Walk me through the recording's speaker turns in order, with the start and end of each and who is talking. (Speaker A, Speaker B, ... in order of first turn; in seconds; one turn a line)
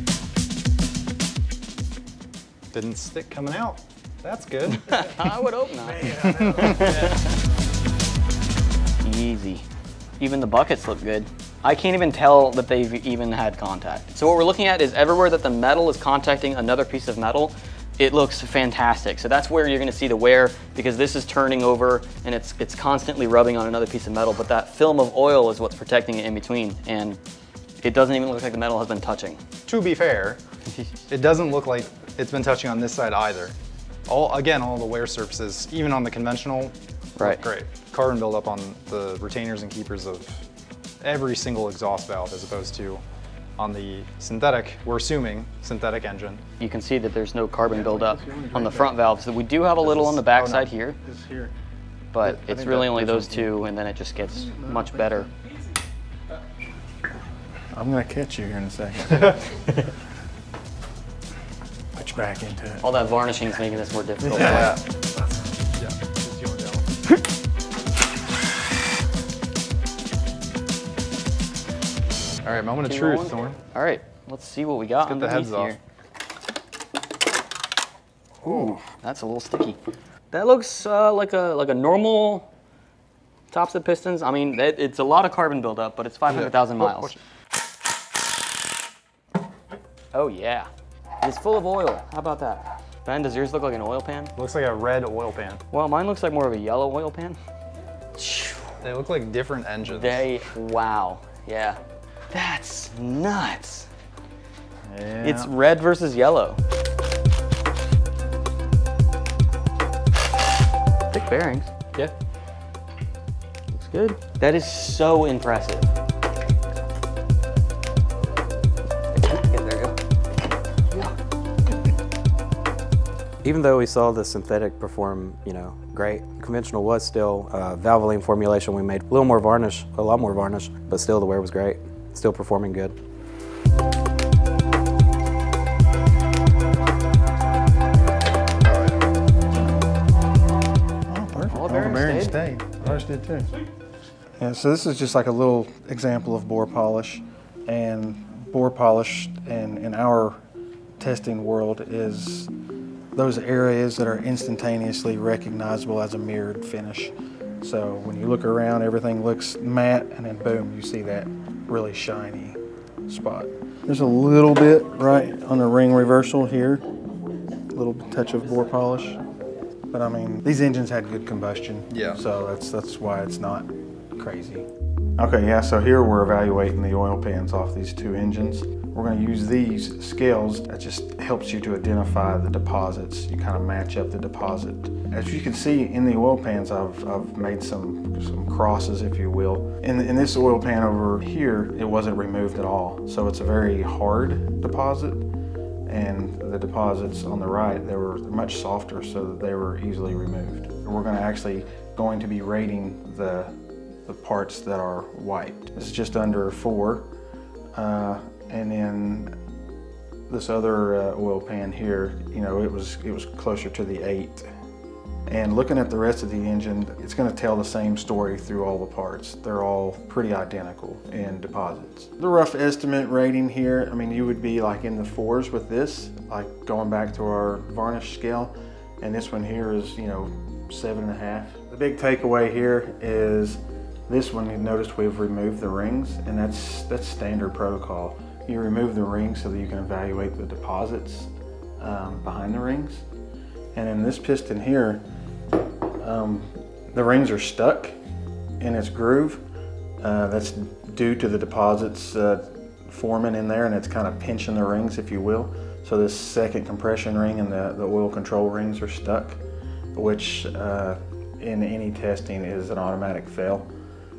Speaker A: 2.7-5.2
Speaker B: 4.7-7.3
Speaker C: 5.9-6.9
Speaker A: 6.3-7.2
Speaker B: 9.0-9.7
Speaker B: 10.2-27.2
Speaker B: 27.8-29.4
Speaker A: 29.7-30.4
Speaker A: 31.1-33.5
Speaker A: 34.1-40.5
Speaker B: 37.2-37.4
Speaker A: 41.0-43.0
Speaker A: 43.6-46.4
Speaker B: 46.6-51.0
Speaker C: 47.6-49.0
Speaker A: 49.8-50.7
Speaker C: 51.0-51.5
Speaker B: 52.1-55.3
Speaker C: 52.3-53.5
Speaker C: 54.2-55.3
Speaker C: 57.7-59.6
Speaker C: 61.9-62.9
Speaker B: 62.8-64.8
Speaker C: 64.3-64.8
Speaker A: 64.3-64.8
Speaker A: 65.8-66.9
Speaker A: 72.4-73.6
Speaker B: 72.8-75.8
Speaker A: 75.0-75.8
Speaker A: 78.4-78.8
Speaker B: 78.4-79.8
Speaker B: 80.3-82.5
Speaker B: 83.5-87.2
Speaker A: 86.3-87.2
Speaker B: 90.1-90.7
Speaker B: 91.2-94.3
Speaker A: 94.4-95.6
Speaker B: 95.7-97.4
Speaker B: 98.2-98.8
Speaker A: 98.8-100.3
Speaker B: 99.8-101.8
Speaker B: 102.3-103.9
Speaker A: 104.9-105.5
Speaker B: 105.2-106.6
Speaker B: 111.1-112.1
Speaker B: 113.7-115.9
Speaker B: 119.1-120.0
Speaker D: 123.4-133.0
Speaker A: 138.6-139.0
Speaker C: 141.1-143.5
Speaker B: 141.5-142.5
Speaker C: 144.4-150.4
Speaker C: 151.0-152.5
Speaker C: 153.1-166.8
Speaker C: 167.7-169.2
Speaker C: 169.9-174.7
Speaker A: 171.9-172.2
Speaker C: 175.2-195.2
Speaker C: 195.9-207.1
Speaker C: 207.8-209.3
Speaker C: 210.3-214.5
Speaker C: 215.3-243.1
Speaker C: 243.8-245.1
Speaker C: 246.0-247.9
Speaker C: 248.6-249.4
Speaker C: 250.0-259.4
Speaker C: 259.9-263.7